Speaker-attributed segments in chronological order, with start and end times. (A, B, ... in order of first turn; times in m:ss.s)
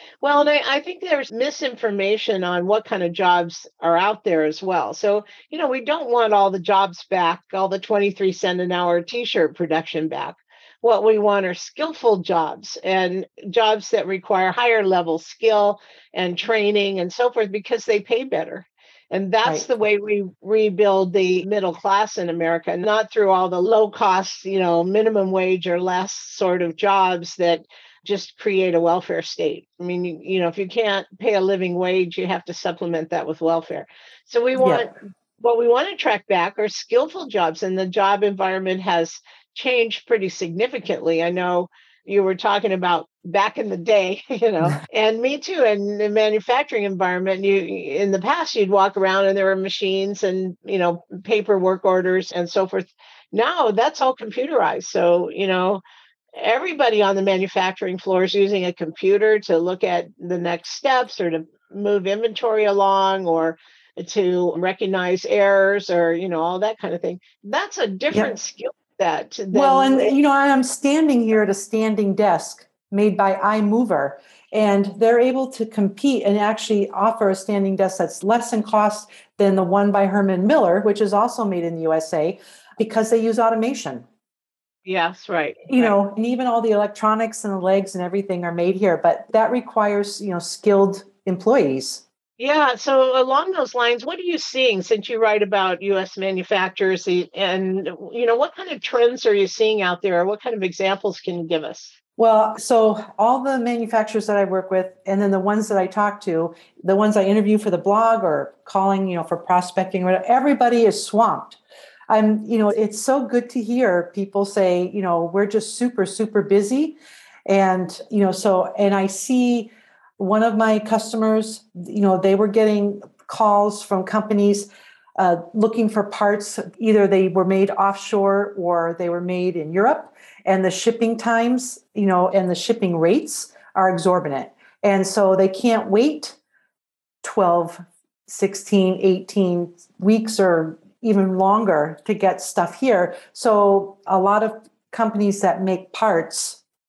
0:00.2-0:55.8 A
0:34.6-0:34.9 B
0:56.4-1:10.1 A
1:09.5-1:24.0 B
1:24.8-1:26.0 A
1:25.7-1:32.0 B
1:32.4-1:42.0 A
1:42.2-2:16.4 B
2:17.2-2:26.6 B